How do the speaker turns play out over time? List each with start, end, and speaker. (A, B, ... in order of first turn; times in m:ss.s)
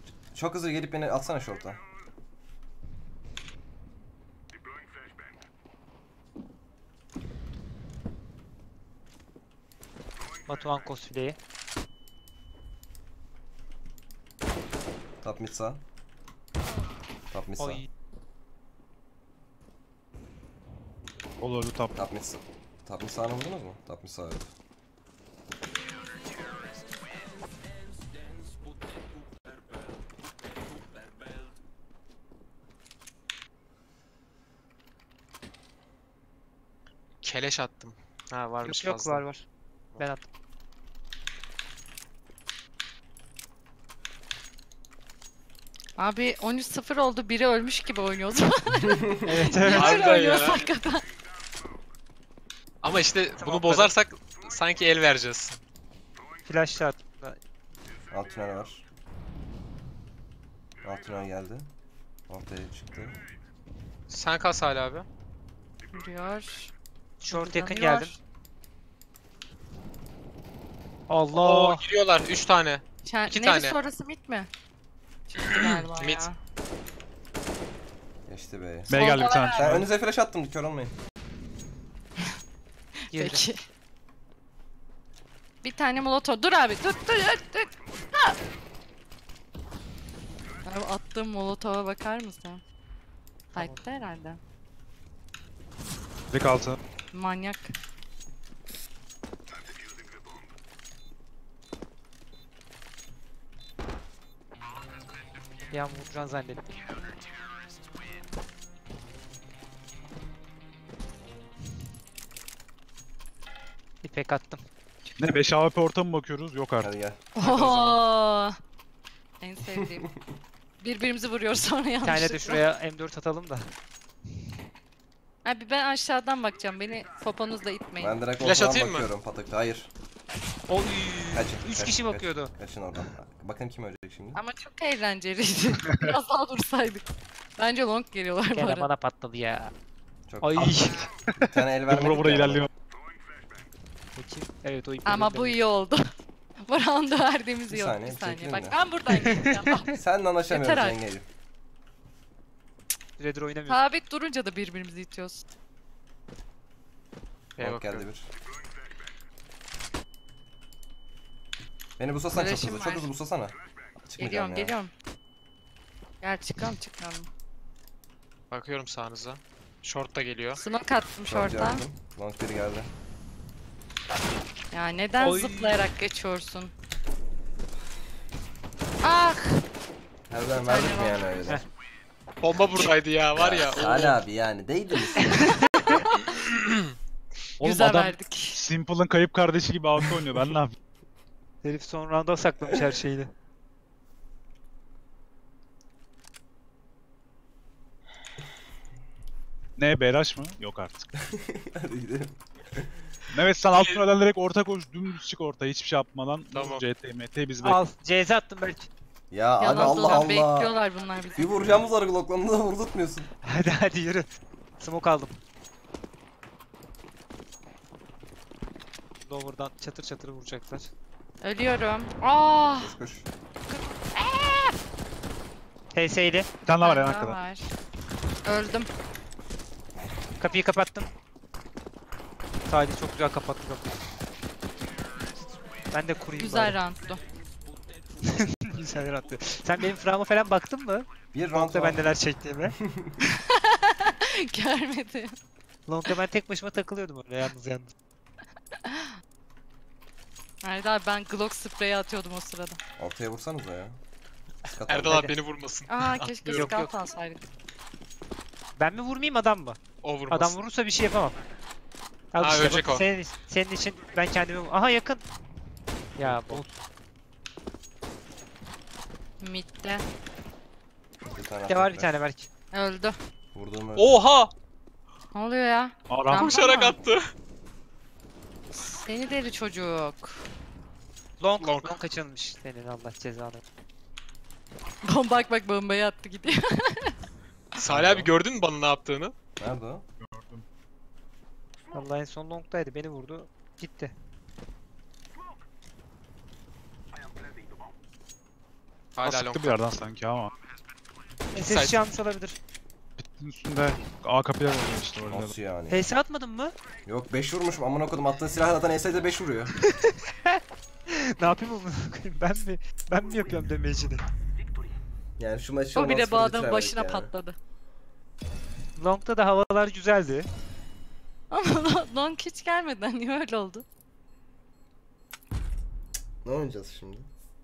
0:00.3-0:01.8 A
0:10.5-0:11.4 B
0:15.2-0:15.8 A
0:17.3-0:17.8 A
0:17.6-0:17.9 B
0:21.4-0:22.0 C
0:21.9-0:24.5 A
0:37.2-0:39.2 D
0:38.6-0:39.4 B
0:40.0-0:40.2 B
0:46.0-0:51.1 E
0:48.9-0:49.2 A
0:49.2-0:50.1 B
0:49.7-0:50.7 D
0:52.8-0:55.6 D
0:53.4-0:53.9 B
0:56.5-0:57.4 B
0:58.1-0:58.8 A
1:00.8-1:01.7 A
1:02.3-1:03.2 A
1:04.1-1:05.0 D
1:05.9-1:06.7 E
1:07.2-1:08.1 B
1:07.3-1:08.2 E
1:11.1-1:11.9 B
1:11.3-1:13.8 D
1:13.0-1:14.5 E
1:15.3-1:16.4 E
1:15.4-1:16.2 D
1:18.3-1:20.9 A
1:18.9-1:19.9 C
1:18.9-1:19.7 E
1:23.1-1:23.6 E
1:23.1-1:23.5 B
1:25.6-1:28.4 E
1:30.6-1:32.6 E
1:33.5-1:33.8 B
1:33.5-1:34.4 E
1:36.3-1:36.8 C
1:37.1-1:37.7 E
1:45.7-1:46.6 B
1:54.0-1:54.6 B
1:55.2-1:56.9 C
1:56.8-1:57.2 A
1:57.4-1:58.6 E
1:57.4-1:58.0 D
1:59.4-2:00.1 E
2:00.8-2:02.6 E
2:02.0-2:03.7 B
2:05.4-2:08.2 E
2:08.0-2:09.9 A
2:08.4-2:09.0 D
2:10.7-2:12.5 B
2:11.3-2:14.4 A
2:14.3-2:17.0 E
2:17.6-2:18.9 E
2:18.5-2:19.7 B
2:20.3-2:22.7 A
2:20.4-2:21.1 B
2:21.4-2:22.7 C
2:24.2-2:25.6 B
2:25.0-2:26.0 E
2:26.6-2:30.0 E
2:27.7-2:28.8 A
2:29.1-2:29.7 B
2:29.9-2:31.3 A
2:30.5-2:31.0 E
2:33.2-2:33.8 B
2:33.7-2:35.4 E
2:37.6-2:38.1 D
2:37.6-2:38.3 A
2:42.0-2:44.7 A
2:42.3-2:43.0 E
2:44.2-2:44.9 E
2:46.2-2:47.3 E
2:48.5-2:50.6 D
2:50.6-2:51.8 E
2:51.3-2:52.9 A
2:54.7-2:56.7 E
2:55.2-2:55.8 B
2:59.0-2:59.6 E
3:00.3-3:01.6 A
3:00.6-3:01.2 E
3:02.4-3:04.2 D
3:03.3-3:05.5 A
3:05.7-3:06.0 B
3:06.2-3:06.9 D
3:07.6-3:10.8 C
3:07.6-3:08.6 E
3:11.6-3:13.3 B
3:19.8-3:21.1 C
3:21.2-3:22.9 A
3:23.3-3:27.8 C
3:23.7-3:24.0 D
3:26.5-3:26.8 D
3:27.6-3:28.9 B
3:29.3-3:30.8 A
3:29.6-3:31.5 E
3:29.8-3:30.2 B
3:31.4-3:33.3 A
3:33.4-3:34.3 B
3:34.8-3:35.4 B
3:39.2-3:40.9 B
3:41.4-3:42.9 E
3:42.8-3:43.3 A
3:45.9-3:46.5 B
3:46.6-3:47.4 C
3:46.8-3:47.7 E
3:48.4-3:48.9 E
3:50.4-3:51.1 B
3:52.7-3:53.9 B
3:55.9-3:56.8 B
3:56.4-3:57.2 E
3:58.2-4:02.8 B
4:01.3-4:02.0 A
4:02.8-4:03.2 A
4:03.2-4:05.3 E
4:05.9-4:07.9 B
4:08.8-4:09.1 E
4:10.6-4:12.8 E
4:13.0-4:14.0 A
4:14.6-4:15.3 A
4:14.9-4:16.7 D
4:15.9-4:17.4 E
4:16.5-4:16.9 B
4:18.8-4:19.8 B
4:20.0-4:20.6 D
4:20.3-4:21.4 B
4:22.3-4:25.2 B
4:22.4-4:23.0 D
4:26.2-4:26.7 B
4:26.2-4:26.6 C
4:29.4-4:30.0 E
4:31.2-4:32.2 A
4:31.7-4:32.5 B
4:32.7-4:33.2 E
4:33.5-4:34.2 A
4:34.0-4:34.5 D
4:35.3-4:37.0 E
4:36.1-4:36.5 C
4:36.3-4:37.3 D
4:38.7-4:40.4 E
4:41.4-4:43.6 B
4:41.6-4:41.9 D
4:45.0-4:47.1 E
4:47.8-4:49.3 D
4:47.9-4:48.2 A
4:49.6-4:50.0 A
4:50.2-4:50.6 C
4:51.9-4:54.1 B
4:59.2-4:59.7 D
4:59.2-5:00.5 C
5:01.5-5:02.0 D
5:01.5-5:02.6 B
5:03.2-5:05.5 C
5:05.3-5:06.1 A
5:05.9-5:06.7 B
5:07.0-5:09.7 A
5:09.8-5:14.2 B
5:15.4-5:17.3 A
5:15.9-5:17.6 E
5:19.0-5:20.5 B
5:21.5-5:23.8 E
5:26.4-5:27.3 A